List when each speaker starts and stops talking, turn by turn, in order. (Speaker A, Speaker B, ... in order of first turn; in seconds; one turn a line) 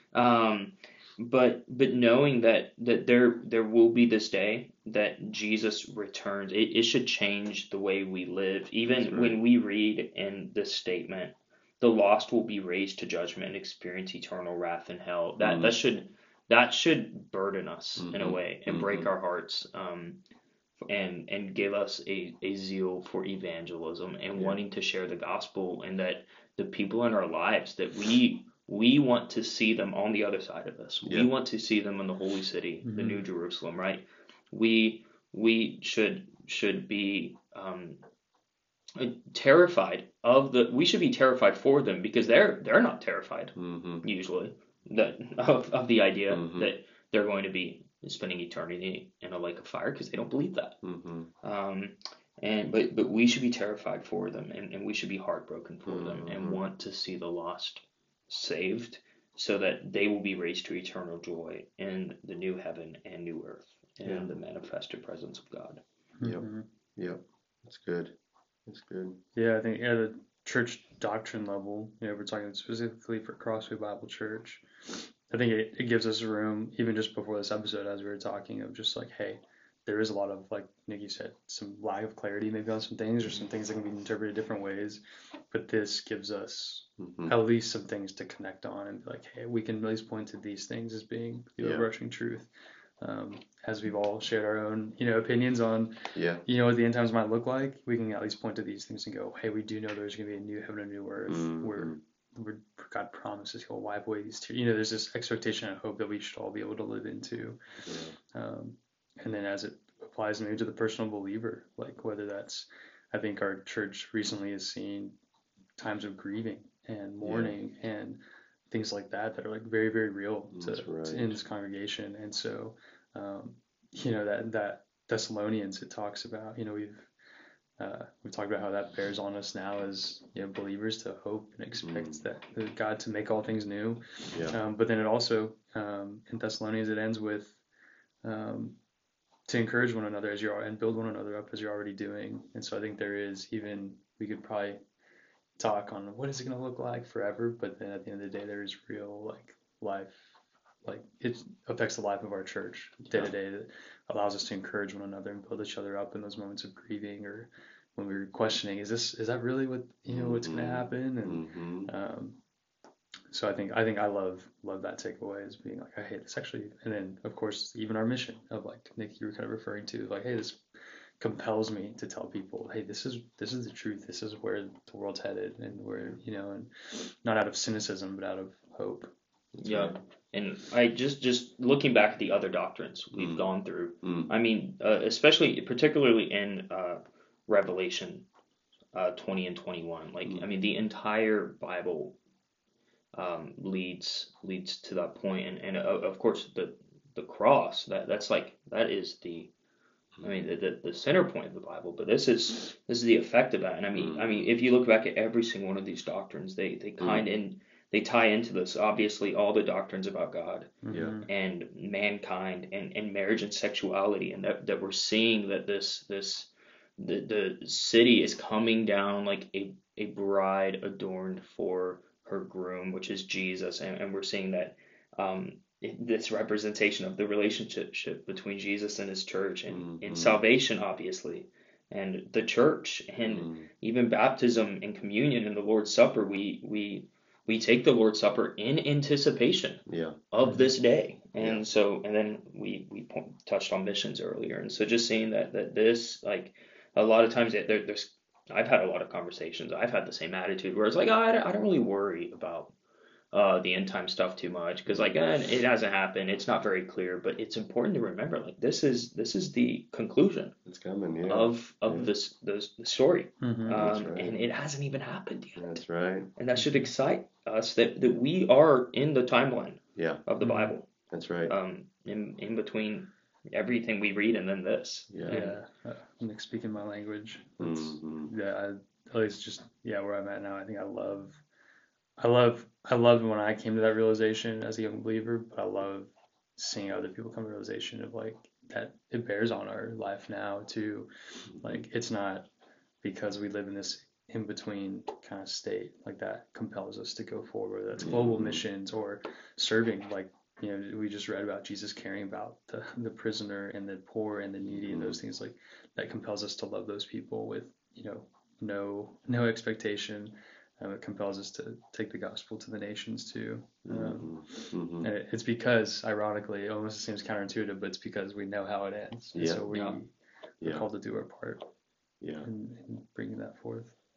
Speaker A: 0.1-20.2
Speaker B: 8.9-9.4
Speaker B: 15.4-15.8
Speaker B: 18.0-19.1
Speaker A: 20.8-38.0
Speaker B: 24.4-24.6
Speaker B: 31.0-31.3
Speaker C: 32.9-33.3
Speaker A: 39.0-50.8
Speaker B: 43.6-44.0
Speaker B: 46.3-46.7
Speaker B: 50.8-51.3
Speaker A: 51.4-65.8
Speaker B: 55.9-56.6
Speaker B: 64.0-64.3
Speaker C: 66.2-66.6
Speaker B: 66.2-68.1
Speaker B: 68.7-69.2
Speaker C: 69.3-107.6
Speaker B: 87.0-87.4
Speaker B: 91.6-91.9
Speaker B: 96.1-96.4
Speaker B: 101.3-102.0
Speaker B: 107.8-108.2
Speaker C: 108.3-115.2
Speaker C: 115.8-127.1
Speaker B: 117.2-117.5
Speaker B: 120.5-121.4
Speaker C: 127.8-137.6
Speaker B: 131.8-132.2
Speaker B: 134.3-134.6
Speaker C: 138.2-138.8
Speaker C: 139.5-144.8
Speaker C: 145.6-150.3
Speaker C: 150.8-162.4
Speaker B: 160.1-161.9
Speaker C: 163.3-170.6
Speaker C: 171.2-179.1
Speaker B: 179.6-180.0
Speaker A: 179.6-188.3
Speaker B: 183.2-183.5
Speaker B: 184.0-184.3
Speaker A: 188.9-192.2
Speaker A: 193.1-199.5
Speaker A: 200.2-252.7
Speaker B: 204.0-204.5
Speaker B: 207.0-207.3
Speaker C: 210.8-211.3
Speaker B: 210.9-211.2
Speaker B: 229.7-230.4
Speaker B: 233.3-233.7
Speaker B: 239.9-240.2
Speaker C: 240.4-240.7
Speaker A: 253.3-260.6
Speaker B: 254.9-255.1
Speaker B: 260.6-262.1
Speaker A: 261.2-265.8
Speaker C: 263.4-263.8
Speaker B: 263.7-264.4
Speaker B: 265.6-266.3
Speaker A: 266.4-270.9
Speaker B: 270.0-270.2
Speaker C: 270.4-270.7
Speaker B: 271.1-271.6
Speaker A: 271.5-275.6
Speaker B: 275.1-275.5
Speaker C: 275.3-281.4
Speaker B: 277.6-278.3
Speaker C: 282.2-292.5
Speaker B: 291.5-291.8
Speaker C: 293.0-320.1
Speaker B: 298.0-298.6
Speaker B: 304.6-305.2
Speaker B: 313.9-315.1
Speaker B: 319.3-319.6
Speaker A: 319.7-320.0
Speaker B: 320.6-320.9
Speaker C: 320.6-321.6
Speaker B: 322.2-322.5
Speaker C: 322.4-323.9